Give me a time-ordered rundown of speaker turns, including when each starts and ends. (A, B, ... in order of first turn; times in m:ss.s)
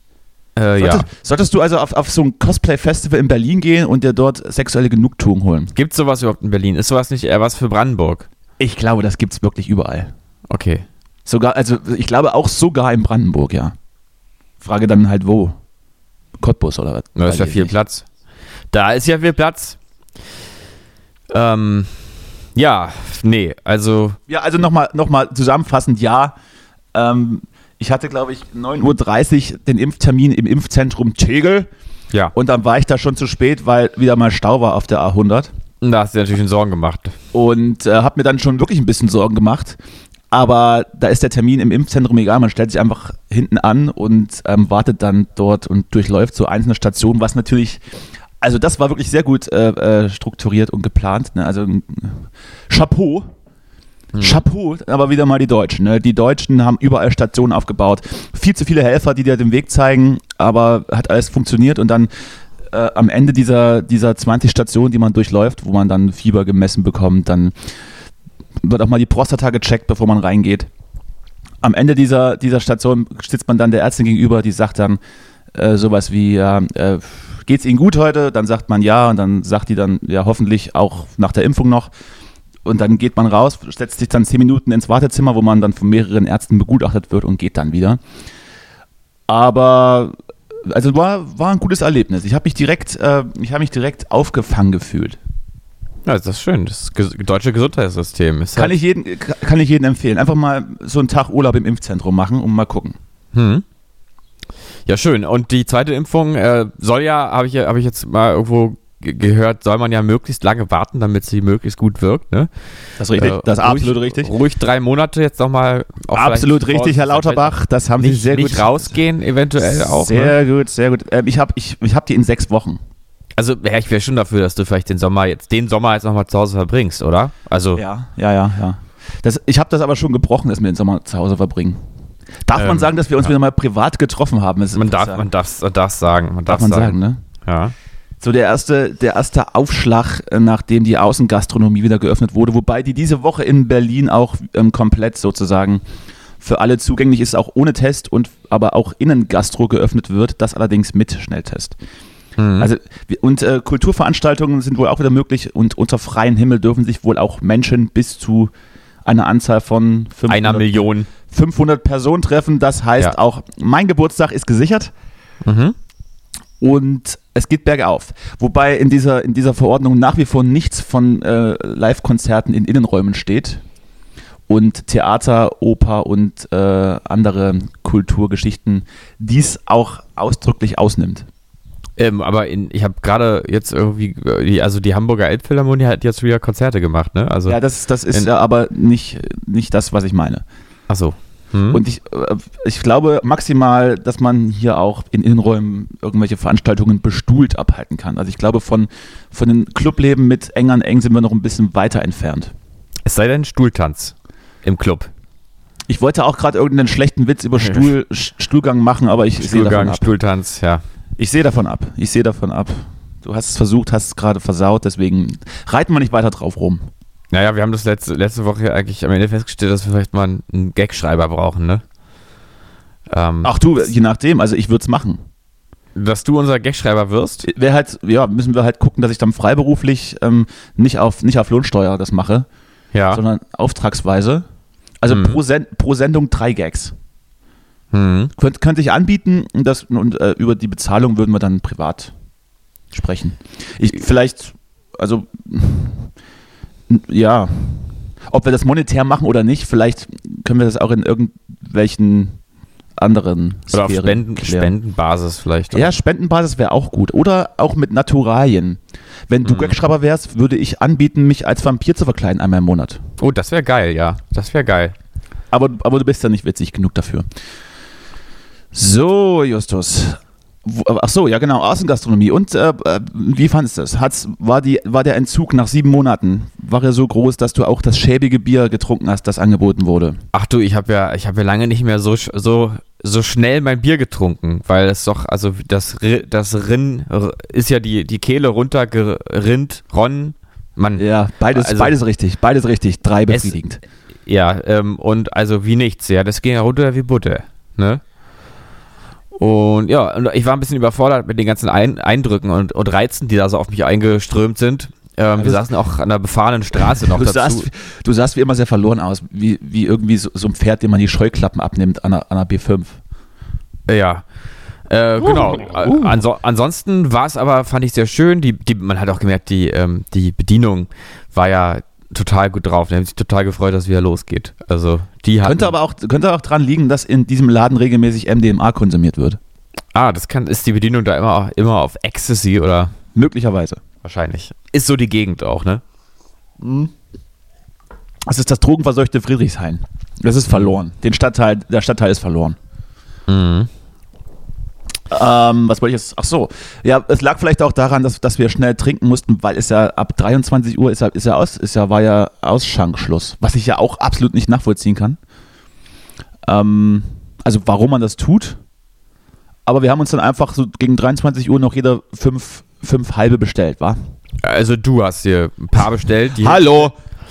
0:00.6-0:01.1 A
0:00.8-0:05.7 B
0:05.7-0:08.3 A
0:08.6-0:10.1 B
0:10.5-0:10.8 A
0:11.3-0:13.8 B
0:14.6-0:15.6 B
0:16.4-0:17.7 B
0:17.2-0:18.0 A
0:18.7-0:19.8 A
0:21.3-0:22.0 A
0:22.6-0:24.2 A
0:24.3-0:26.4 B
0:26.9-0:31.7 B
0:32.3-0:35.5 B
0:35.8-0:37.2 A
0:37.3-0:39.8 B
0:40.3-0:47.8 B
0:48.4-0:53.3 B
0:54.1-0:54.4 A
0:54.2-1:07.7 B
1:08.6-1:10.7 B
1:11.6-1:15.0 B
1:15.5-1:21.9 B
1:22.6-1:28.0 B
1:29.3-1:35.2 B
1:36.0-1:38.7 A
1:38.6-1:43.0 B
1:43.3-1:43.6 A
1:44.9-1:52.5 A
1:53.0-1:54.3 B
1:53.2-2:00.4 A
1:56.1-1:59.0 B
1:59.6-2:02.8 B
2:03.4-2:07.8 A
2:07.8-2:11.8 B
2:12.5-2:15.2 B
2:12.6-2:13.3 A
2:14.7-2:17.7 A
2:16.5-2:17.2 B
2:18.2-2:25.8 B
2:26.4-2:31.8 B
2:32.4-2:32.7 A
2:32.6-2:38.5 B
2:39.0-2:44.9 B
2:40.3-2:41.1 A
2:45.4-2:45.8 A
2:46.6-2:53.6 B
2:54.5-3:01.3 B
3:02.0-3:07.6 A
3:07.5-3:10.4 B
3:10.9-3:11.8 A
3:11.7-3:22.5 B
3:23.0-3:25.1 A
3:25.9-3:30.1 B
3:29.4-3:30.8 A
3:31.2-3:36.9 B
3:37.3-3:41.8 A
3:43.1-3:43.5 A
3:43.4-3:45.2 B
3:46.0-3:47.5 A
3:47.4-3:52.5 B
3:52.9-3:53.2 A
3:53.1-3:54.4 B
3:55.0-3:56.9 B
3:55.1-3:55.4 A
3:57.9-3:58.3 A
3:58.4-4:02.1 B
4:02.9-4:06.1 B
4:06.9-4:12.4 B
4:13.0-4:14.7 B
4:13.7-4:15.9 A
4:15.7-4:23.0 B
4:19.4-4:19.8 A
4:23.2-4:25.0 A
4:25.5-4:27.3 B
4:28.7-4:40.2 B
4:40.3-4:52.0 A
4:51.0-4:53.8 B
4:53.3-4:53.6 A
4:54.3-4:58.0 A
4:59.4-5:07.7 A
5:05.4-5:05.6 B
5:06.9-5:13.0 B
5:13.9-5:14.3 A
5:14.9-5:25.7 A
5:15.2-5:16.2 B
5:25.4-5:29.4 B
5:29.9-5:32.9 A
5:33.1-5:33.8 B
5:34.0-5:35.8 A
5:36.6-5:36.9 B
5:38.3-5:42.6 B
5:43.3-5:43.7 A
5:45.1-5:55.2 B
5:56.4-5:58.6 B
5:59.7-6:04.0 B
6:04.4-6:06.9 A
6:06.4-6:06.9 B